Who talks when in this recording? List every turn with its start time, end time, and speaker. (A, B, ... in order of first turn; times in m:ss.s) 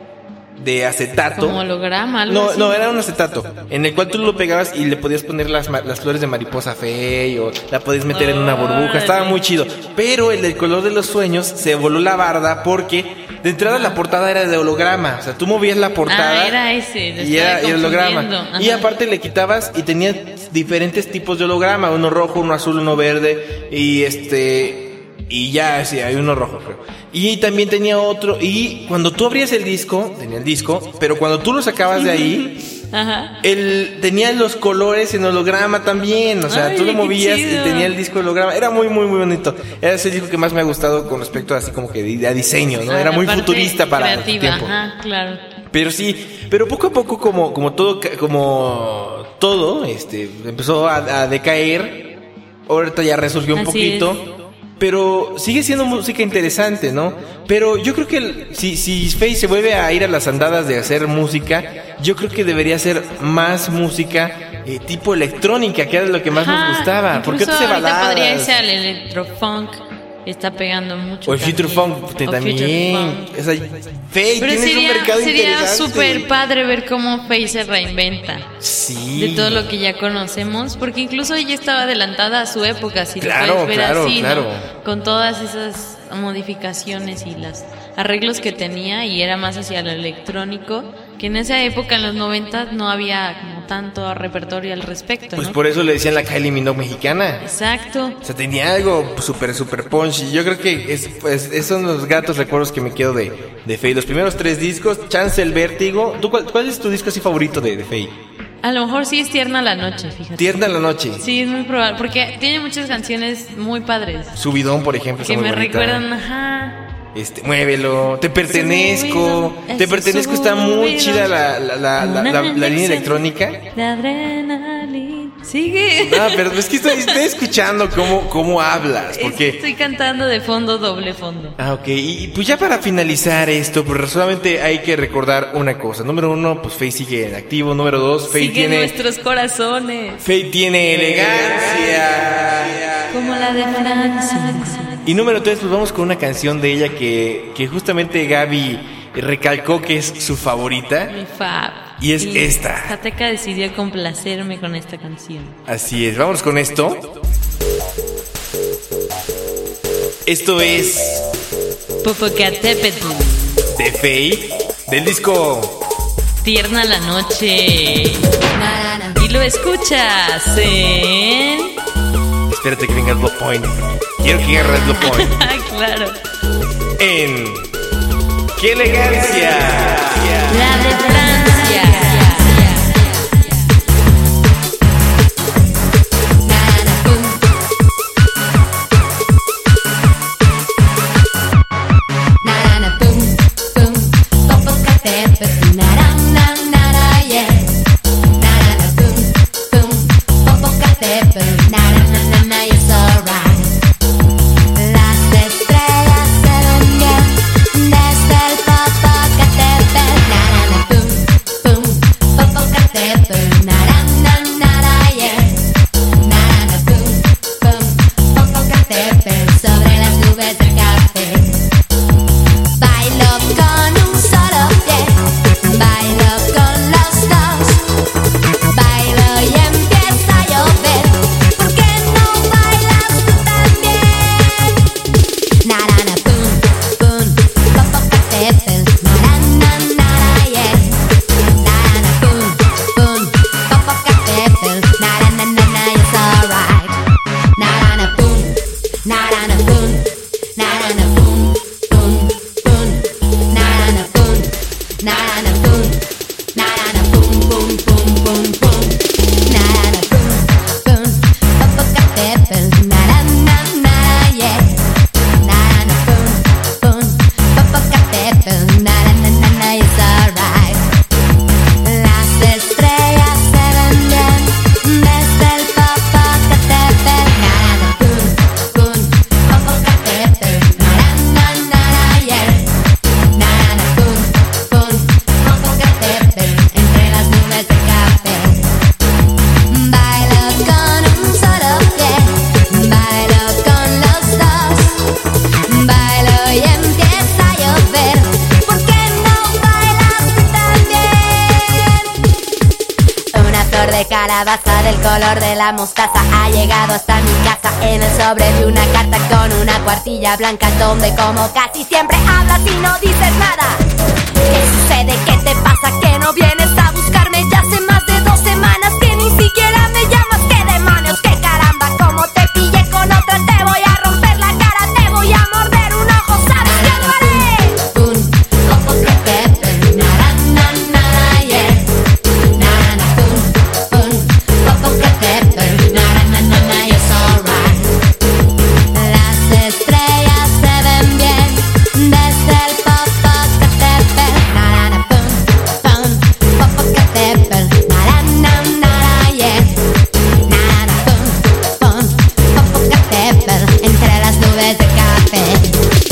0:00.6-0:01.6 A
0:01.4-0:02.8 B
0:02.3-0:16.6 A
0:08.1-0:09.4 B
0:13.6-0:14.0 B
0:16.1-0:18.9 B
0:17.2-0:32.6 A
0:32.0-0:33.4 B
0:33.4-0:44.8 A
0:36.5-0:38.0 B
0:42.8-0:45.4 B
0:45.7-0:52.1 A
0:52.7-1:08.6 A
0:53.5-0:54.2 B
1:06.3-1:13.3 B
1:11.2-1:16.3 A
1:14.4-1:18.5 B
1:18.6-1:19.7 A
1:19.2-1:35.6 B
1:23.2-1:24.7 A
1:35.4-1:37.4 A
1:37.4-1:38.2 B
1:38.2-1:48.1 A
1:48.6-1:54.4 B
1:50.4-1:51.2 A
1:54.4-1:56.1 A
1:55.2-1:56.8 B
1:57.1-2:03.6 A
1:58.4-2:01.4 B
2:02.0-2:07.3 B
2:06.0-2:09.6 A
2:09.1-2:11.6 B
2:11.6-2:18.9 A
2:18.3-2:20.3 B
2:20.2-2:23.1 A
2:23.1-2:25.1 B
2:25.0-2:31.1 A
2:31.1-2:35.6 B
2:32.0-2:33.0 A
2:35.7-2:37.1 A
2:40.3-2:41.3 A
2:42.0-2:43.6 B
2:43.7-2:45.8 A
2:46.4-2:48.4 B
2:48.5-2:49.2 C
2:49.2-2:51.7 B
2:52.5-2:55.4 A
2:55.0-2:56.2 B
2:57.0-2:57.7 A
2:58.6-3:00.7 A
3:00.4-3:02.9 B
3:00.8-3:03.0 C
3:06.4-3:07.5 C
3:12.4-3:17.8 C
3:18.4-3:23.8 C
3:24.8-3:35.7 C
3:36.2-3:41.6 C
3:42.8-3:47.9 C
3:48.7-3:54.7 C
3:55.6-4:01.0 C
4:01.6-4:07.0 C
4:07.6-4:16.0 C
4:16.6-4:24.8 C
4:25.4-4:31.0 C
4:31.8-4:42.7 C
4:43.4-4:48.8 C
4:49.7-4:55.1 C
4:55.7-5:02.0 C
5:03.3-5:13.8 C
5:14.5-5:31.9 C
5:32.6-5:38.0 C
5:38.9-5:49.9 C
5:50.5-5:55.8 C